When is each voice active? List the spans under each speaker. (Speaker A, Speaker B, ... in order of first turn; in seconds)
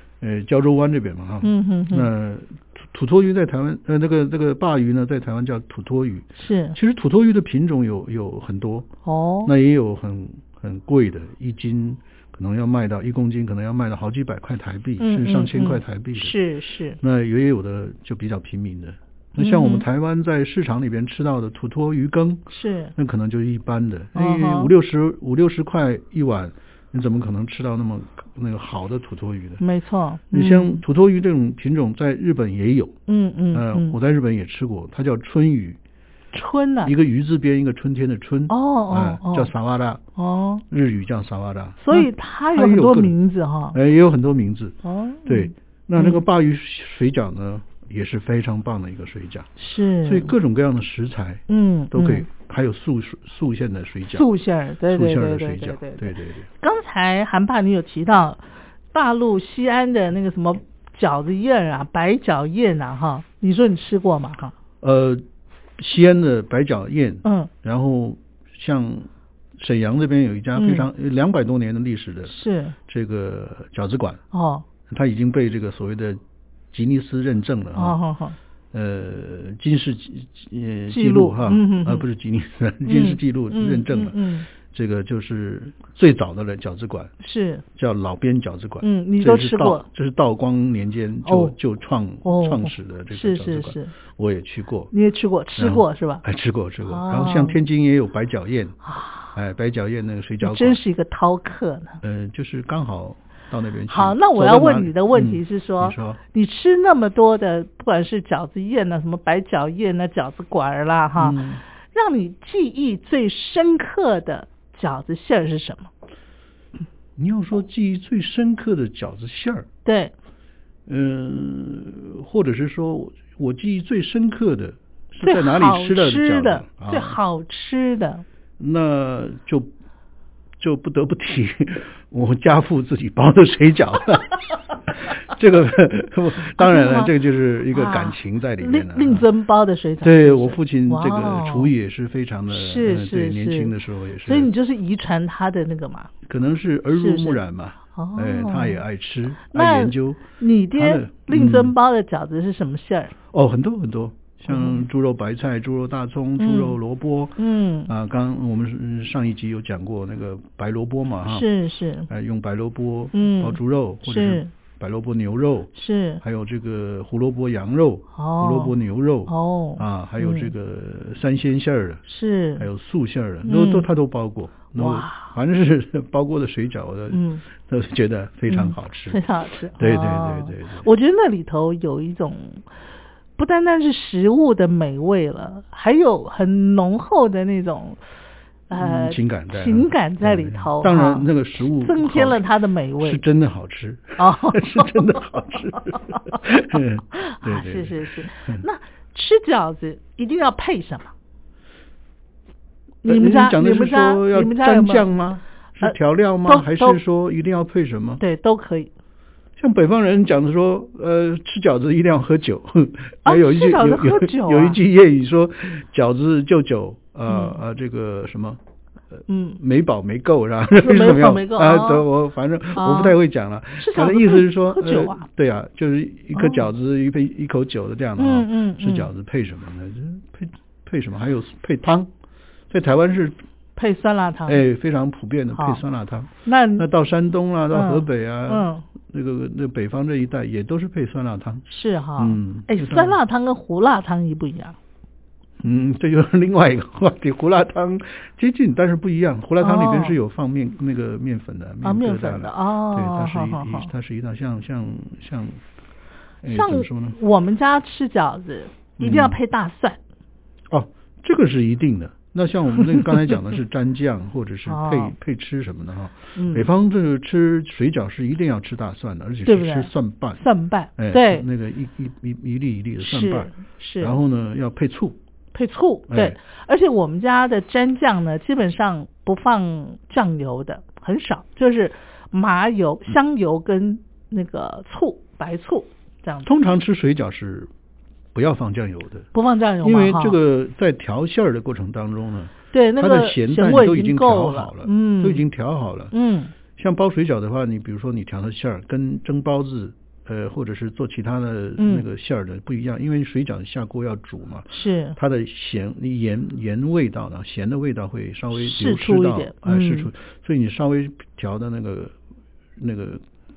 Speaker A: 0.2-8.9, 9.4-16.3, 17.0-29.6, 30.3-33.0, 33.5-35.8, 36.8-40.0, 40.7-43.1, 43.7-49.5, 50.0-54.2, 54.9-56.5, 64.8-65.2, 65.8-74.2, 74.9-76.2, 76.7-78.0, 78.7-87.1, 87.7-94.9, 95.6-98.8, 99.3-100.8, 102.0-106.2, 111.2-111.6, 117.2-119.7, 120.9-127.2, 128.6-129.7, 130.6-139.2, 140.0-144.5, 146.2-151.7, 153.3-161.5, 162.1-172.0, 172.6-179.2, 179.8-180.8, 188.8-192.4, 193.0-198.6, 203.0-208.2, 209.6-218.6, 219.2-232.1, 232.7-233.4, 234.4-241.6, 242.2-243.2, 245.6-255.6, 256.4-257.2, 259.0-259.4, 260.7-270.4, 271.0-275.2, 276.1-276.4, 286.4-287.7, 288.3-289.3, 289.8-296.1, 296.8-312.1, 312.8-313.2
Speaker B: 1.4-2.1, 6.4-6.8, 9.0-9.5, 15.0-17.0, 19.4-19.8, 22.5-22.9, 24.1-24.7, 29.6-30.8, 33.1-33.9, 36.3-36.9, 38.5-39.5, 40.2-40.6, 41.8-43.8, 44.8-46.2, 49.6-50.3, 51.5-52.3, 54.1-58.4, 58.9-64.5, 67.2-67.5, 70.5-70.9, 72.3-72.8, 74.3-74.6, 77.7-78.3, 80.9-82.0, 82.8-84.5, 87.2-87.6, 88.8-89.8, 91.2-91.5, 92.2-93.9, 94.9-96.2, 96.8-97.6, 98.8-99.3, 100.4-102.0, 103.9-111.4, 111.9-115.9, 119.8-120.1, 125.2-128.2, 136.6-137.1, 137.7-141.7, 142.5-143.7, 144.2-146.1, 146.9-147.4, 147.9-148.8, 149.5-153.1, 154.5-154.8, 156.4-156.8, 157.4-157.9, 161.3-162.1, 163.1-164.5, 165.7-166.2, 168.2-168.7, 169.3-170.5, 172.1-172.7, 173.4-173.9, 174.7-175.3, 177.1-177.4, 178.5-182.6, 183.4-188.0, 188.7-193.2, 194.2-195.0, 195.8-201.1, 203.0-205.1, 205.8-207.0, 208.2-208.9, 213.2-214.8, 217.3-217.6, 219.3-219.6, 220.8-222.1, 222.7-223.2, 223.8-225.2, 226.3-226.7, 228.2-229.1, 233.8-234.6, 235.5-235.8, 236.4-236.8, 237.7-238.8, 241.7-244.8, 249.6-250.1, 251.8-253.9, 256.5-260.0, 264.6-265.1, 266.3-266.7, 269.4-271.4, 273.0-274.2, 275.5-286.5, 289.3-290.4, 292.7-295.4, 296.1-296.5, 301.8-302.1, 304.7-305.2, 308.5-310.1